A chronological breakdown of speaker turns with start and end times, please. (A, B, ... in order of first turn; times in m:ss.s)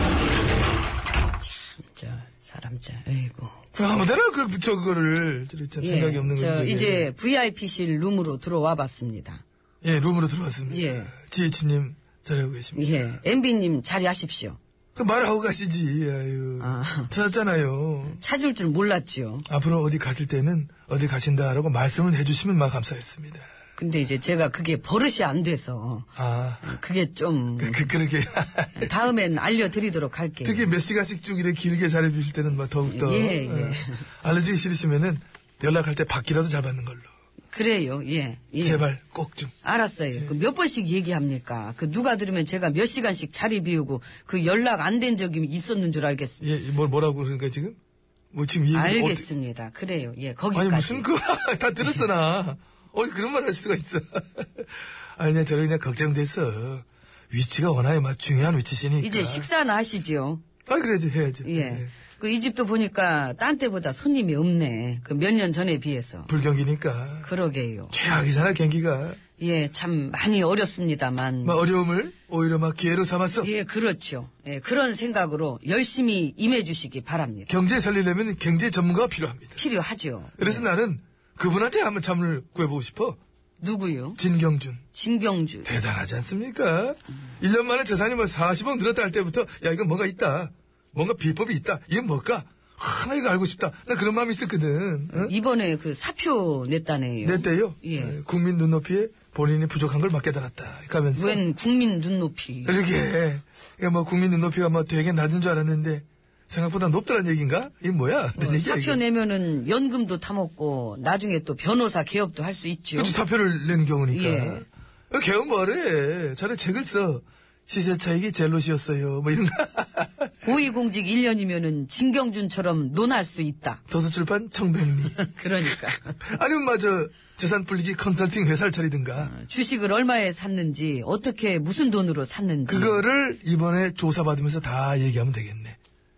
0:01.4-0:03.6 A
0:03.7-0:07.1 B
0:05.8-0:09.4 A
0:09.8-0:13.2 B
0:10.7-0:11.1 A
0:12.8-0:14.6 A
0:15.0-0:18.2 B
0:16.6-0:17.1 A
0:18.1-0:19.5 A
0:19.5-0:23.5 B
0:23.8-0:26.1 A
0:26.2-0:26.7 B
0:26.6-0:27.9 A
0:27.6-0:28.9 B
0:28.8-0:30.7 A
0:30.4-0:37.1 B
0:32.9-0:34.1 A
0:37.5-0:38.8 A
0:38.6-0:39.5 B
0:39.6-0:46.5 A
0:46.4-0:47.8 B
0:48.3-0:49.3 B
0:48.7-0:51.1 A
0:50.5-0:59.5 B
0:51.8-0:52.1 A
0:59.0-1:00.4 A
1:00.7-1:01.9 B
1:01.4-1:06.3 A
1:06.3-1:07.3 B
1:07.2-1:07.9 A
1:07.9-1:09.2 B
1:09.4-1:11.6 A
1:11.4-1:13.5 B
1:13.4-1:17.5 A
1:17.5-1:19.6 B
1:19.6-1:20.7 A
1:20.4-1:23.2 B
1:23.6-1:24.2 A
1:24.2-1:24.8 B
1:24.9-1:25.7 A
1:25.6-1:35.3 B
1:35.1-1:38.2 A
1:37.2-1:41.4 B
1:41.2-1:42.8 A
1:42.6-1:49.0 B
1:48.4-1:53.2 A
1:53.0-2:00.3 B
1:54.1-1:54.7 A
2:00.4-2:03.8 A
2:03.9-2:05.2 B
2:05.2-2:06.2 A
2:06.2-2:09.3 B
2:09.2-2:13.0 A
2:12.7-2:15.8 B